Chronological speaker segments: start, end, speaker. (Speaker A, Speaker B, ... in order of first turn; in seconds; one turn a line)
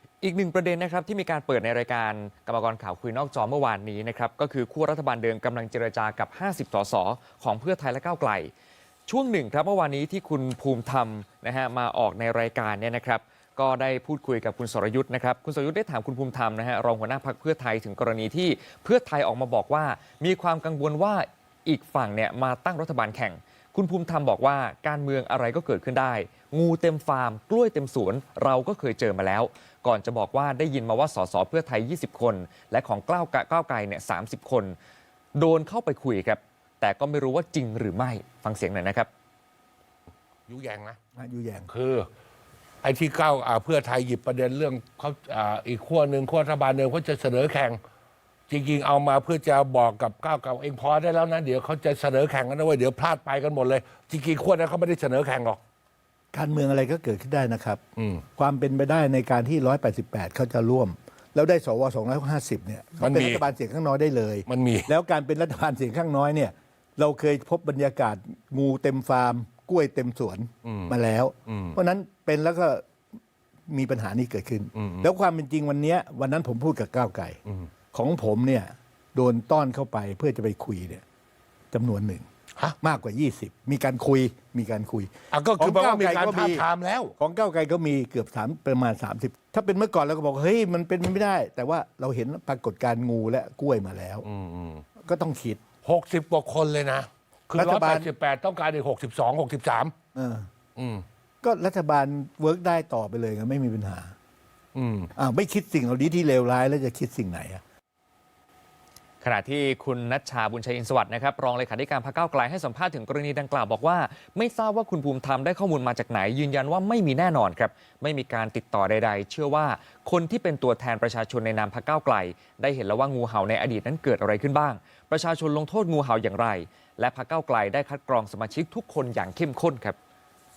Speaker A: 0.2-8.5
Speaker A: 9.1-34.8
Speaker A: 35.4-39.1
Speaker B: 40.5-41.0
Speaker C: 41.2-41.7
Speaker B: 41.7-42.1
Speaker B: 42.8-47.8
Speaker B: 48.5-55.6
Speaker C: 56.3-57.8
Speaker C: 58.4-72.8
Speaker B: 63.0-63.5
Speaker B: 64.5-64.9
Speaker B: 70.7-71.0
Speaker B: 71.5-71.8
Speaker C: 73.7-77.4
Speaker B: 74.8-75.0
Speaker C: 77.9-81.0
Speaker C: 81.7-82.2
Speaker C: 82.8-86.7
Speaker B: 85.3-87.1
Speaker C: 87.2-94.3
Speaker B: 94.2-94.8
Speaker C: 95.0-95.6
Speaker B: 95.8-99.9
Speaker C: 97.5-98.1
Speaker C: 100.2-100.5
Speaker B: 100.8-101.0
Speaker C: 101.4-104.1
Speaker B: 104.8-105.1
Speaker C: 105.2-107.6
Speaker A: 109.2-130.0